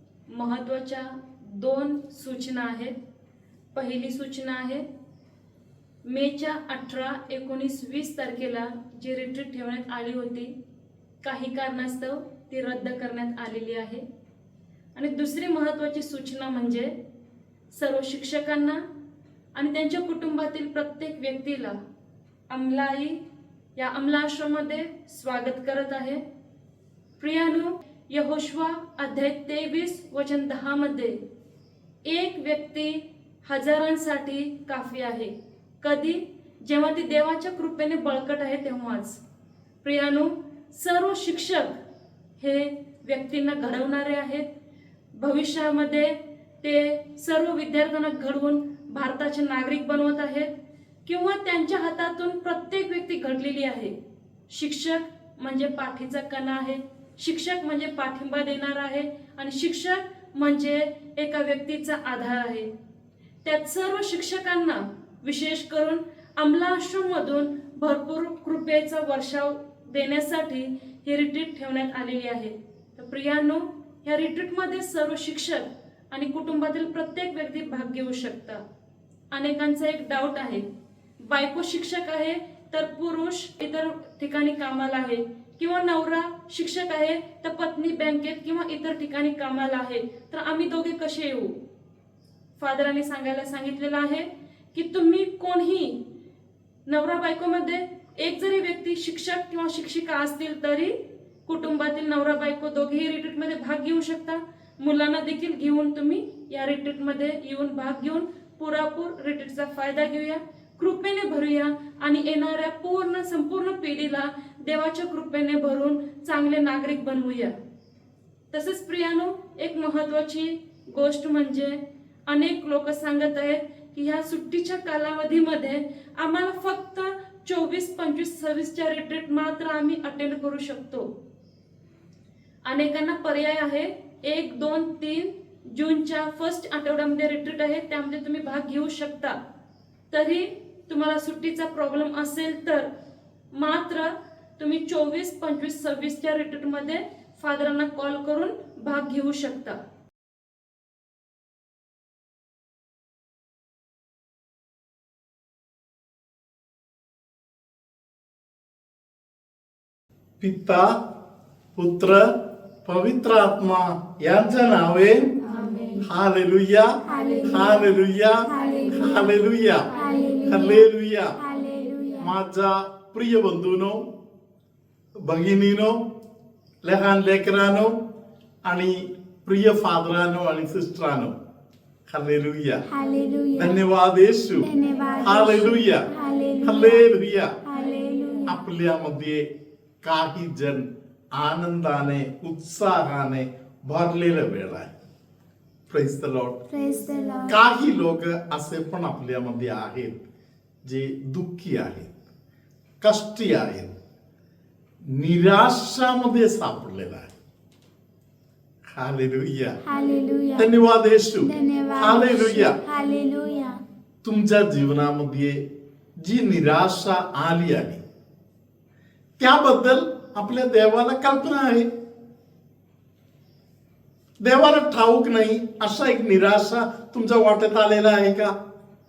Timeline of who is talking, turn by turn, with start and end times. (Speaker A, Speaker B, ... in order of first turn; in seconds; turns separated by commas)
Speaker A: 0.3-2.9, Speaker A: 3.7-4.8, Speaker A: 6.0-10.5, Speaker A: 11.2-14.0, Speaker A: 14.9-16.9, Speaker A: 17.7-18.8, Speaker A: 19.5-21.8, Speaker A: 22.5-23.2, Speaker A: 23.8-26.2, Speaker A: 27.2-31.2, Speaker A: 32.0-39.2, Speaker A: 39.8-41.8, Speaker A: 42.4-44.5, Speaker A: 45.1-50.5, Speaker A: 51.0-53.9, Speaker A: 54.5-62.7, Speaker A: 63.4-78.6, Speaker A: 79.3-80.7, Speaker A: 81.2-91.5, Speaker A: 92.6-96.0, Speaker A: 96.9-117.5, Speaker A: 118.5-131.1, Speaker A: 132.6-139.3, Speaker A: 140.1-142.9, Speaker A: 143.5-149.8, Speaker B: 160.4-161.0, Speaker B: 161.8-162.3, Speaker B: 162.8-165.3, Speaker B: 166.0-169.9, Speaker C: 167.1-167.9, Speaker C: 168.5-169.3, Speaker C: 169.9-170.8, Speaker B: 170.5-171.4, Speaker C: 171.4-172.3, Speaker B: 172.2-174.1, Speaker B: 175.2-176.0, Speaker B: 176.8-177.9, Speaker B: 178.6-181.3, Speaker B: 182.1-182.8, Speaker C: 182.9-183.8, Speaker B: 183.5-184.7, Speaker C: 184.5-187.1, Speaker B: 185.2-186.1, Speaker B: 186.6-187.6, Speaker C: 187.6-188.6, Speaker B: 188.4-189.4, Speaker B: 190.0-194.9, Speaker B: 195.9-196.6, Speaker C: 196.7-197.6, Speaker B: 197.5-200.2, Speaker B: 200.8-202.1, Speaker B: 203.0-203.9, Speaker B: 205.1-207.3, Speaker B: 208.9-209.8, Speaker C: 209.8-210.7, Speaker B: 210.6-212.8, Speaker C: 211.4-213.8, Speaker B: 214.2-215.6, Speaker B: 216.2-218.0, Speaker B: 219.4-221.9, Speaker B: 224.4-228.5